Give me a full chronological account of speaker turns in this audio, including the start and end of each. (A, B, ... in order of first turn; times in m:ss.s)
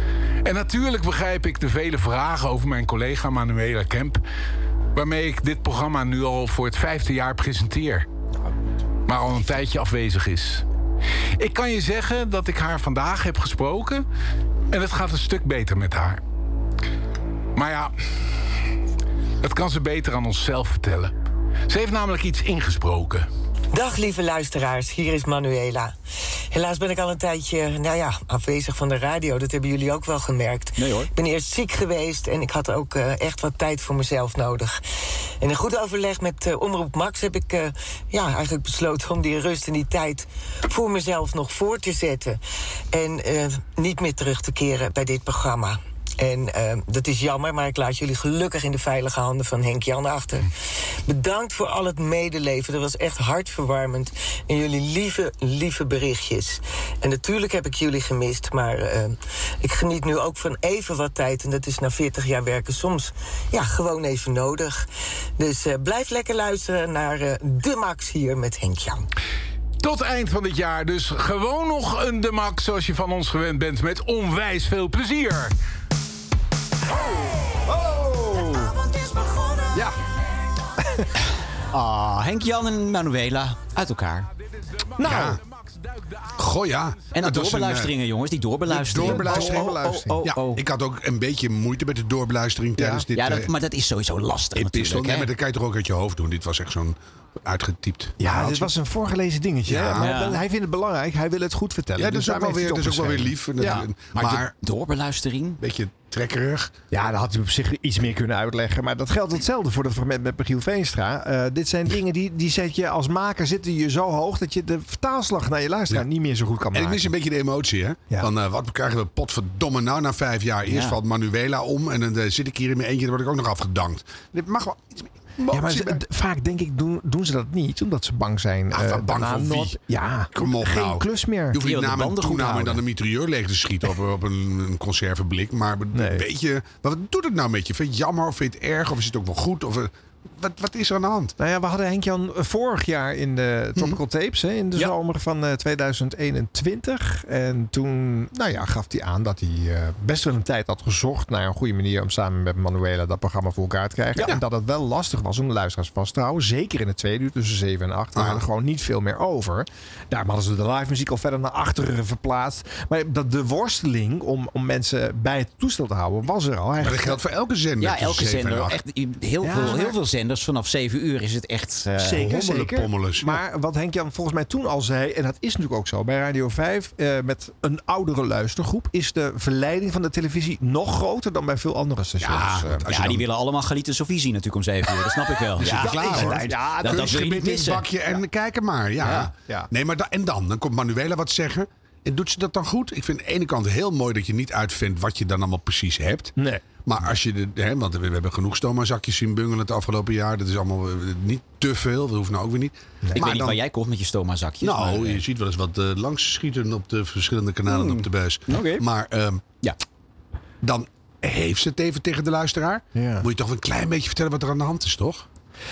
0:00.4-0:04.2 A
0:05.0-0:08.1 A
0:09.1-0:10.6 A
0:11.4-0:14.0 A
0:14.7-0:16.2 A
0:17.6-0:17.9 A
0:19.4-0:21.1 A
0:21.7-0:23.3 A
0:23.7-0:26.0 B
0:26.5-0:34.8 B
0:30.8-0:31.1 C
0:35.4-0:42.4 B
0:42.9-0:50.5 B
0:51.1-1:04.9 B
1:05.4-1:09.1 B
1:09.8-1:15.5 A
1:17.7-1:18.7 D
1:21.7-1:24.3 C
1:25.0-1:25.4 D
1:25.0-1:25.4 E
1:26.4-1:27.9 E
1:27.1-1:30.6 C
1:28.7-1:33.5 E
1:28.9-1:30.3 D
1:32.8-1:33.1 D
1:33.1-1:35.3 C
1:34.6-1:38.7 E
1:38.2-1:43.9 D
1:39.7-1:40.1 E
1:40.0-1:40.4 C
1:42.0-1:44.5 E
1:43.6-1:45.6 C
1:45.6-1:46.7 E
1:46.9-1:57.2 D
1:56.7-2:06.0 E
2:00.7-2:01.0 C
2:05.5-2:11.6 D
2:08.7-2:09.8 E
2:10.3-2:21.4 E
2:11.6-2:12.8 C
2:15.9-2:16.3 D
2:21.4-2:47.2 D
2:38.2-2:38.4 E
2:46.8-2:48.8 E
2:47.8-2:52.3 C
2:49.4-2:50.0 D
2:52.0-3:02.8 D
2:52.2-2:53.4 E
3:02.2-3:03.2 E
3:02.9-3:07.9 C
3:05.6-3:23.6 E
3:05.6-3:07.3 D
3:09.0-3:09.3 C
3:09.0-3:09.7 D
3:16.4-3:16.6 D
3:23.0-3:23.4 D
3:23.2-3:25.2 C
3:24.6-3:29.6 E
3:27.7-3:28.8 C
3:30.6-3:35.3 E
3:33.0-3:33.3 D